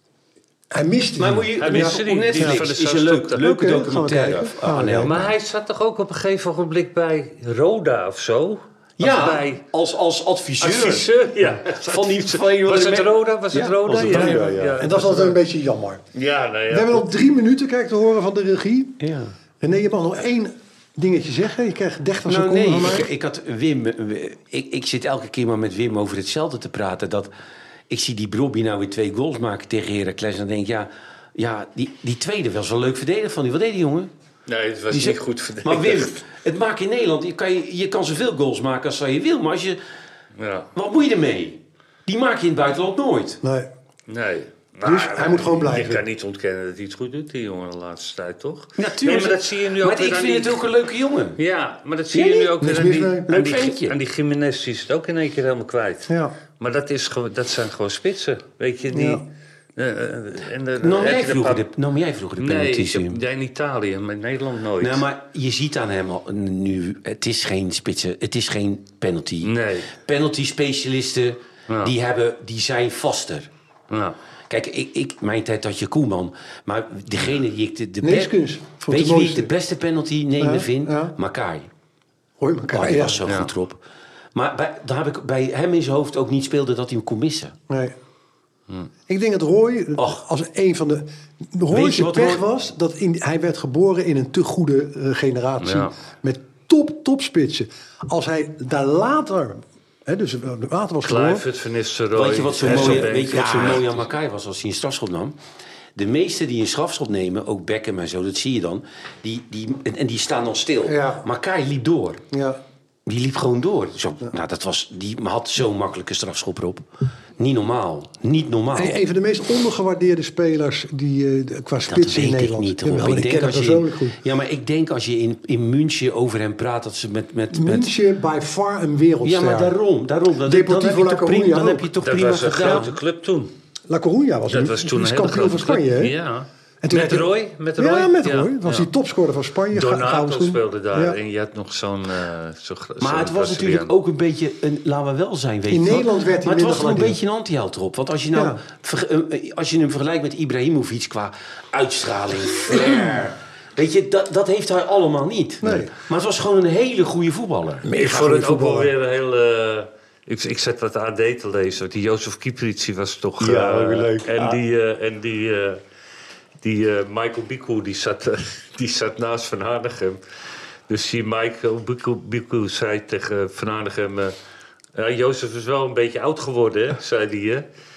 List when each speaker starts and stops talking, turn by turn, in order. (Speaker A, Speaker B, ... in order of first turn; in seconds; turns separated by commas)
Speaker A: 0.7-2.6, Speaker B: 1.2-5.3, Speaker C: 1.6-3.5, Speaker A: 3.4-5.2, Speaker C: 5.0-9.6, Speaker B: 9.0-14.8, Speaker C: 10.6-15.4, Speaker A: 13.6-16.0, Speaker C: 16.1-17.1, Speaker A: 16.7-19.0, Speaker B: 19.0-19.3, Speaker A: 19.6-23.1, Speaker B: 22.3-27.3, Speaker B: 27.9-34.1, Speaker C: 34.5-36.2, Speaker B: 34.9-39.8, Speaker C: 40.4-40.7, Speaker B: 40.7-43.4, Speaker A: 43.4-43.7, Speaker C: 44.1-50.6, Speaker A: 44.8-46.0, Speaker B: 48.8-51.4, Speaker C: 51.4-61.7, Speaker B: 52.1-52.5, Speaker A: 52.6-53.3, Speaker B: 53.3-54.0, Speaker A: 56.1-56.3, Speaker A: 58.9-59.2, Speaker B: 60.8-63.2, Speaker C: 62.4-65.0, Speaker B: 64.8-73.5, Speaker C: 69.4-69.9, Speaker C: 73.9-74.1, Speaker B: 74.5-78.3, Speaker A: 78.0-79.5, Speaker B: 78.9-81.7, Speaker A: 80.4-81.1, Speaker A: 82.4-83.2, Speaker B: 82.7-83.8, Speaker C: 83.2-83.5, Speaker B: 84.3-87.5, Speaker A: 87.7-87.9, Speaker A: 89.1-101.5, Speaker B: 90.0-90.2, Speaker B: 91.7-92.4, Speaker C: 95.6-95.9, Speaker C: 101.0-104.0, Speaker B: 102.1-105.3, Speaker A: 102.6-103.9, Speaker B: 106.0-112.2, Speaker A: 110.8-111.2, Speaker A: 112.3-112.6, Speaker B: 113.0-116.8, Speaker B: 117.4-119.0, Speaker A: 118.7-124.2, Speaker B: 121.9-127.9, Speaker A: 127.5-129.8, Speaker B: 129.2-133.0, Speaker A: 130.4-131.9, Speaker C: 132.0-133.5, Speaker A: 133.9-136.1, Speaker C: 134.5-138.9, Speaker A: 136.8-141.2, Speaker C: 139.7-143.9, Speaker B: 143.0-157.9, Speaker A: 145.7-147.2, Speaker A: 148.3-148.6, Speaker A: 155.6-155.9, Speaker A: 157.8-158.9, Speaker C: 157.9-165.8, Speaker B: 163.4-164.6, Speaker C: 166.6-170.2, Speaker C: 170.9-174.3, Speaker C: 174.9-177.6